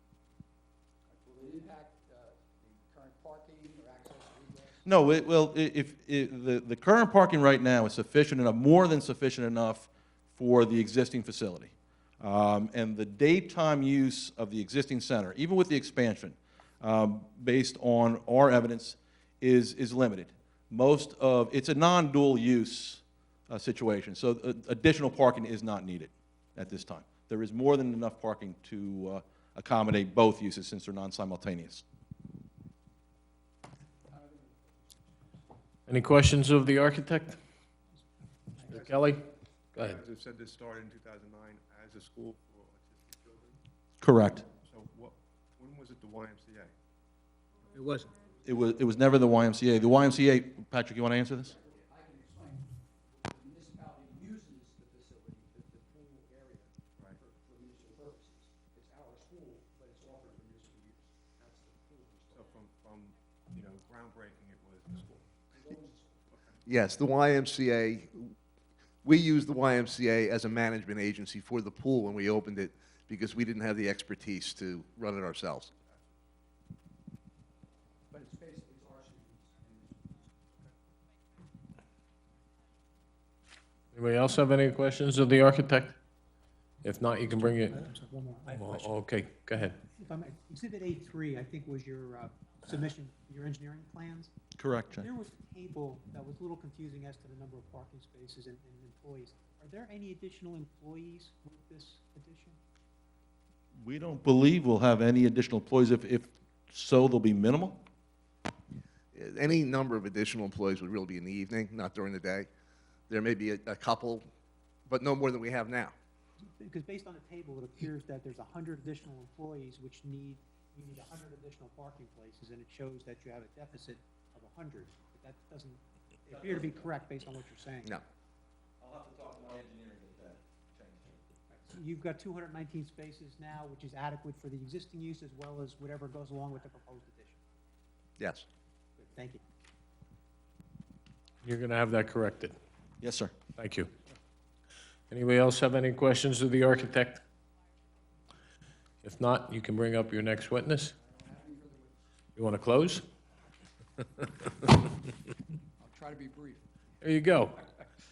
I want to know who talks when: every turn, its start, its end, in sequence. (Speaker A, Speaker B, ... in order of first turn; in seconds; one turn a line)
Speaker A: 1.1-4.8
Speaker B: 4.8-31.8
Speaker A: 34.1-35.5
Speaker C: 35.9-37.4
Speaker C: 38.7-39.2
Speaker D: 38.8-39.1
Speaker D: 39.7-43.6
Speaker C: 39.8-40.0
Speaker B: 44.0-44.5
Speaker D: 44.6-46.7
Speaker B: 48.4-51.5
Speaker A: 51.4-62.5
Speaker D: 62.3-65.2
Speaker A: 65.5-66.2
Speaker D: 66.3-66.6
Speaker E: 66.7-68.3
Speaker E: 69.0-75.7
Speaker A: 78.1-80.3
Speaker C: 83.9-85.9
Speaker C: 86.8-87.8
Speaker F: 87.7-88.9
Speaker C: 88.5-89.8
Speaker F: 89.9-94.3
Speaker B: 94.5-95.1
Speaker F: 95.0-102.6
Speaker B: 103.8-107.8
Speaker E: 109.1-112.5
Speaker E: 113.1-114.3
Speaker E: 114.9-115.9
Speaker F: 116.6-128.0
Speaker B: 126.3-127.0
Speaker B: 128.8-131.2
Speaker F: 131.5-137.3
Speaker E: 138.2-138.4
Speaker F: 139.0-139.4
Speaker C: 141.4-142.6
Speaker B: 143.0-143.3
Speaker C: 143.6-143.9
Speaker C: 145.1-147.2
Speaker C: 149.0-150.9
Speaker A: 150.9-152.0
Speaker C: 152.3-153.1
Speaker A: 155.8-156.7
Speaker C: 157.0-157.6
Speaker A: 157.6-157.8